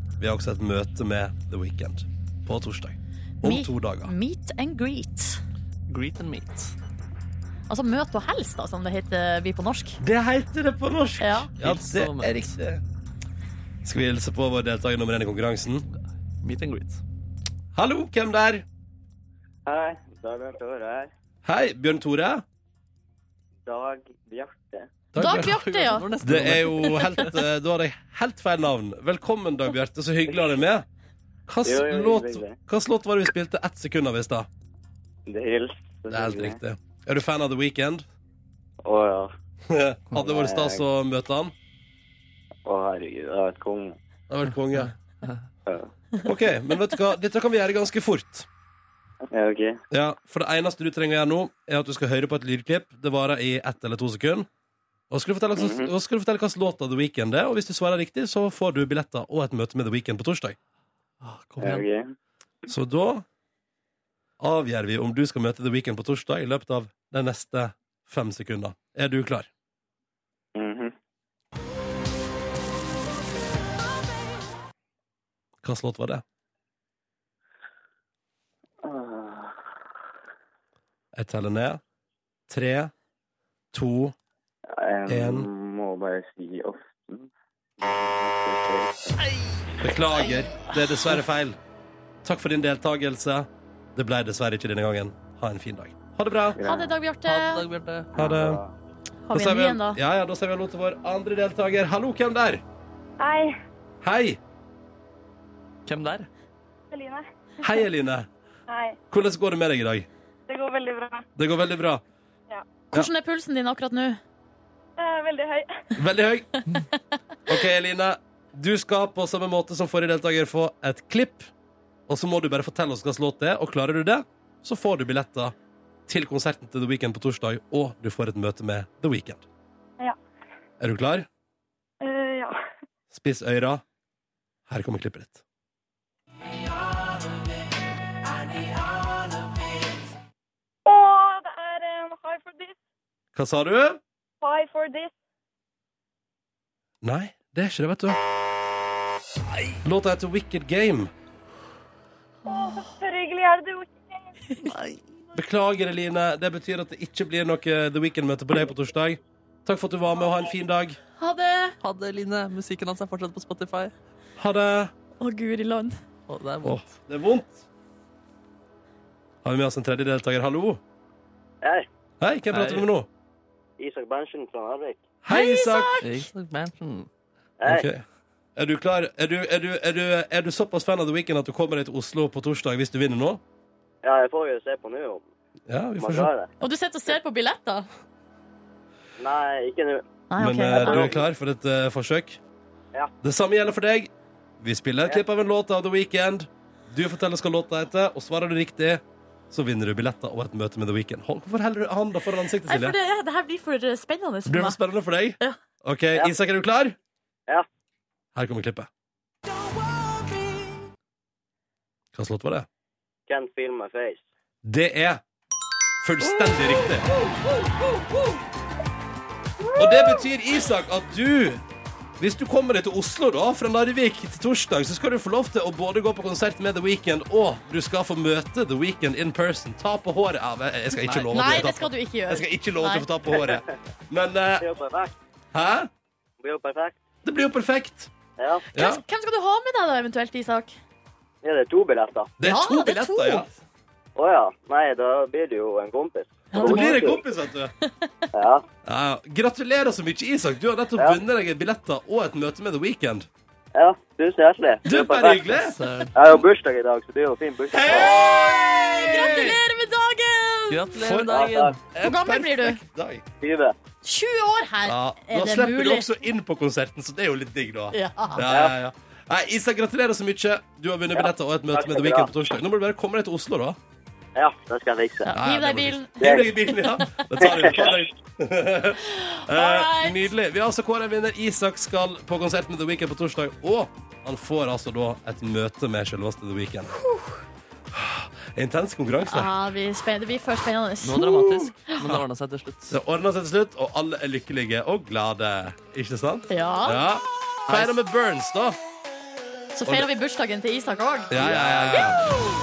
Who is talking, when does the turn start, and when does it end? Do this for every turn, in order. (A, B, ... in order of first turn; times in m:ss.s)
0:00.2-0:04.1 A
0:03.4-0:05.4 B
0:05.9-0:06.8 C
0:07.7-0:10.0 B
0:10.0-0:12.8 A
0:11.2-0:11.5 B
0:11.6-0:12.5 C
0:13.8-0:15.9 A
0:16.4-0:17.0 C
0:17.7-0:18.6 A
0:19.7-0:21.1 D
0:21.4-0:22.4 A
0:23.7-0:24.9 D
0:25.1-0:25.6 A
0:25.2-0:26.1 B
0:25.3-0:27.3 C
0:26.2-0:30.9 A
0:31.5-0:34.5 A
0:31.6-0:32.6 D
0:35.3-0:36.6 D
0:36.1-0:38.1 A
0:38.8-0:39.3 D
0:39.7-0:41.5 A
0:40.2-0:40.8 D
0:42.6-0:44.0 D
0:44.3-0:44.9 A
0:45.7-0:45.9 D
0:46.2-0:48.5 A
0:49.3-0:49.8 D
0:49.9-0:54.5 A
0:55.1-1:00.6 A
0:55.6-0:55.9 D
1:01.2-1:01.8 C
1:01.6-1:02.1 D
1:02.7-1:03.2 A
1:04.4-1:09.5 A
1:10.6-1:10.9 D
1:15.6-1:16.2 A
1:18.8-1:19.6 D
1:21.1-1:21.8 A
1:22.5-1:22.9 A
1:23.7-1:24.2 A
1:24.7-1:29.2 D
1:25.1-1:25.5 A
1:29.8-1:31.6 A
1:32.2-1:36.6 A
1:36.6-1:36.9 D
1:36.6-1:37.6 B
1:37.2-1:38.1 C
1:38.2-1:38.6 A
1:38.2-1:38.7 D
1:39.3-1:40.0 B
1:39.3-1:42.6 A
1:43.2-1:43.6 E
1:44.0-1:44.4 A
1:45.9-1:46.3 C
1:46.9-1:47.7 E
1:47.6-1:48.3 A
1:48.7-1:49.0 E
1:49.1-1:50.1 A
1:50.5-1:51.3 E
1:51.4-1:52.0 A
1:52.9-1:54.2 B
1:55.0-1:55.7 E
1:56.0-1:56.6 A
1:57.5-2:01.5 A
2:02.1-2:05.6 A
2:06.1-2:09.4 A
2:10.8-2:11.3 A
2:12.0-2:12.6 E
2:13.1-2:13.8 A
2:14.7-2:15.4 A
2:20.9-2:22.8 E
2:23.4-2:24.0 A
2:24.4-2:25.1 E
2:27.0-2:28.2 A
2:29.8-2:31.1 A
2:32.5-2:34.3 E
2:34.6-2:35.2 C
2:35.4-2:41.0 A
2:41.2-2:41.8 B
2:41.8-2:43.9 C
2:44.4-2:44.9 A
2:45.2-2:46.0 B
2:46.3-2:46.9 C
2:46.6-2:47.6 A
2:49.4-2:50.8 A
2:52.2-2:53.1 A
2:52.5-2:52.9 C
2:53.8-2:55.0 D
2:55.2-2:56.0 A
2:55.3-2:56.3 B
2:56.0-2:57.1 C
2:57.6-2:57.9 D
2:57.6-2:58.0 A
2:58.6-3:03.4 A
3:04.0-3:05.2 D
3:05.7-3:06.3 A
3:06.0-3:06.5 D
3:06.6-3:07.9 B
3:09.2-3:10.0 D
3:10.3-3:11.1 B
3:10.4-3:12.4 A
3:10.7-3:11.2 D
3:13.2-3:23.0 A
3:22.6-3:24.8 B
3:24.5-3:27.0 A
3:28.4-3:28.9 A
3:32.1-3:32.7 A
3:33.3-3:34.2 D
3:34.6-3:35.2 A
3:36.0-3:37.1 A
3:39.8-3:41.6 A
3:42.2-3:54.7 A
3:51.1-3:51.4 C
3:51.2-3:53.1 B
3:54.6-3:55.1 D
3:55.5-3:55.9 A
3:56.4-3:57.0 D
3:57.2-3:58.1 A
3:58.4-3:58.7 D
3:58.7-4:00.8 B
3:58.7-3:59.0 A
4:01.4-4:02.3 D
4:02.4-4:03.6 A
4:02.4-4:03.4 B
4:04.2-4:07.2 D
4:06.5-4:07.1 B
4:06.6-4:07.7 A
4:07.8-4:08.3 B
4:08.4-4:08.6 D
4:08.8-4:13.3 A
4:13.8-4:15.5 D
4:14.9-4:15.8 A
4:15.6-4:16.1 C
4:16.2-4:18.2 D
4:17.7-4:19.6 A
4:17.9-4:20.9 B
4:20.7-4:21.8 C
4:21.0-4:23.2 A
4:21.3-4:21.7 D
4:22.0-4:22.8 B
4:23.4-4:23.8 D
4:24.0-4:26.1 B
4:24.8-4:33.8 A
4:27.9-4:28.4 B
4:28.5-4:28.8 D
4:31.2-4:32.3 D
4:34.4-4:35.3 D
4:35.3-4:37.1 B
4:35.3-4:47.0 A
4:36.2-4:36.5 D
4:37.4-4:38.0 D
4:39.1-4:40.3 B
4:47.0-4:47.4 B
4:47.9-4:49.5 A
4:49.3-4:52.0 B
4:51.0-4:53.0 C
4:52.9-4:58.8 A
4:56.5-4:57.0 B
4:57.7-4:57.9 C
4:59.7-5:02.4 B
5:01.3-5:02.2 A
5:01.4-5:01.9 C